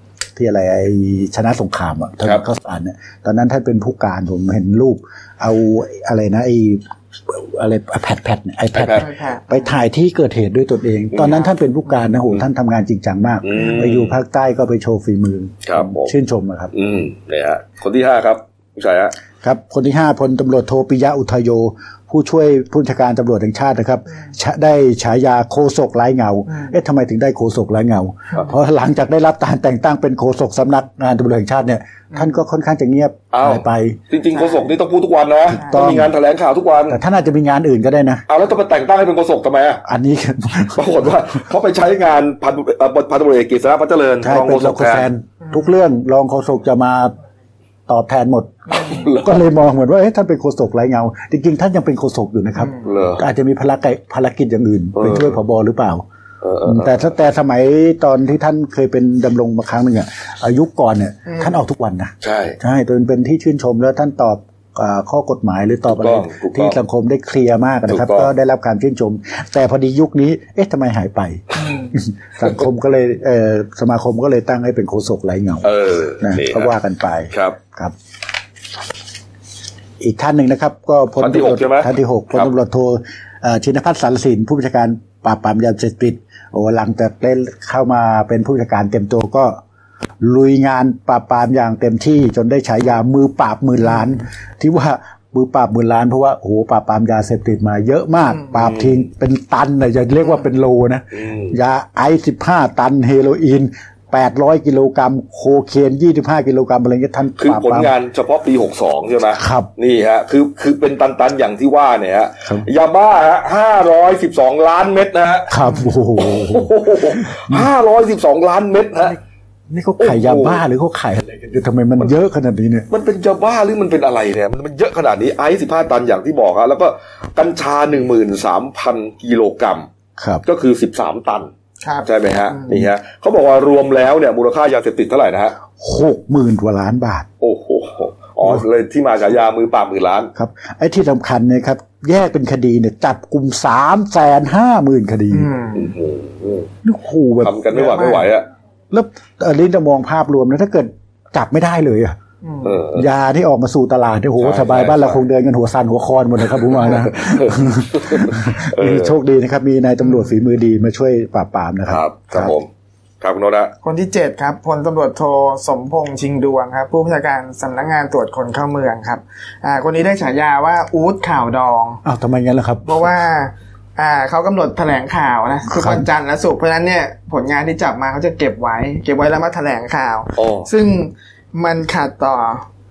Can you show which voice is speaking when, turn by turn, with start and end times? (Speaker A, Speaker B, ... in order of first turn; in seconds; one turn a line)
Speaker A: 0.4-16.7
Speaker B: 8.7-9.1
Speaker C: 8.9-9.7
Speaker B: 11.1-11.5
Speaker B: 13.4-14.2
Speaker B: 15.7-16.1
Speaker B: 16.7-19.1
Speaker A: 19.4-34.0
Speaker C: 26.5-26.8
Speaker B: 33.3-37.0
Speaker C: 34.3-34.7
Speaker A: 35.5-36.1
Speaker A: 36.9-38.2
Speaker B: 38.3-39.8
Speaker A: 39.9-41.1
Speaker B: 40.8-45.1
Speaker A: 44.2-47.1
Speaker C: 45.5-45.8
Speaker A: 47.9-56.0
Speaker C: 48.7-49.0
Speaker B: 48.8-49.4
Speaker C: 52.6-52.8
Speaker B: 52.8-53.2
Speaker B: 55.0-55.4
Speaker B: 56.4-57.0
Speaker A: 56.7-77.9
Speaker C: 61.3-61.6
Speaker B: 62.2-62.6
Speaker B: 65.9-66.8
Speaker B: 67.9-68.3
Speaker C: 71.6-72.0
Speaker B: 75.6-76.7
Speaker B: 77.3-77.6
Speaker A: 80.0-89.6
Speaker B: 81.2-82.5
Speaker A: 90.2-107.9
Speaker B: 98.6-99.0
Speaker B: 101.1-101.5
Speaker B: 107.4-115.5
Speaker A: 109.4-109.7
Speaker A: 115.5-117.7
Speaker B: 116.2-119.2
Speaker A: 119.7-122.9
Speaker B: 120.0-120.6
Speaker B: 122.9-129.9
Speaker A: 130.2-130.4
Speaker B: 130.4-131.5
Speaker C: 131.8-132.8
Speaker B: 132.1-135.6
Speaker A: 135.7-137.3
Speaker B: 137.4-140.3
Speaker A: 140.4-145.5
Speaker C: 145.3-145.9
Speaker B: 145.8-146.7
Speaker A: 146.8-147.7
Speaker B: 147.4-148.5
Speaker C: 147.8-148.3
Speaker A: 148.9-152.2
Speaker C: 152.4-152.7
Speaker B: 152.6-153.1
Speaker A: 152.9-162.6
Speaker B: 154.4-155.2
Speaker B: 157.2-159.2
Speaker C: 160.0-160.3
Speaker B: 161.9-162.7
Speaker B: 163.2-163.7
Speaker C: 163.8-172.0
Speaker A: 172.0-172.8
Speaker C: 172.8-182.7
Speaker A: 175.7-176.0
Speaker B: 180.4-180.7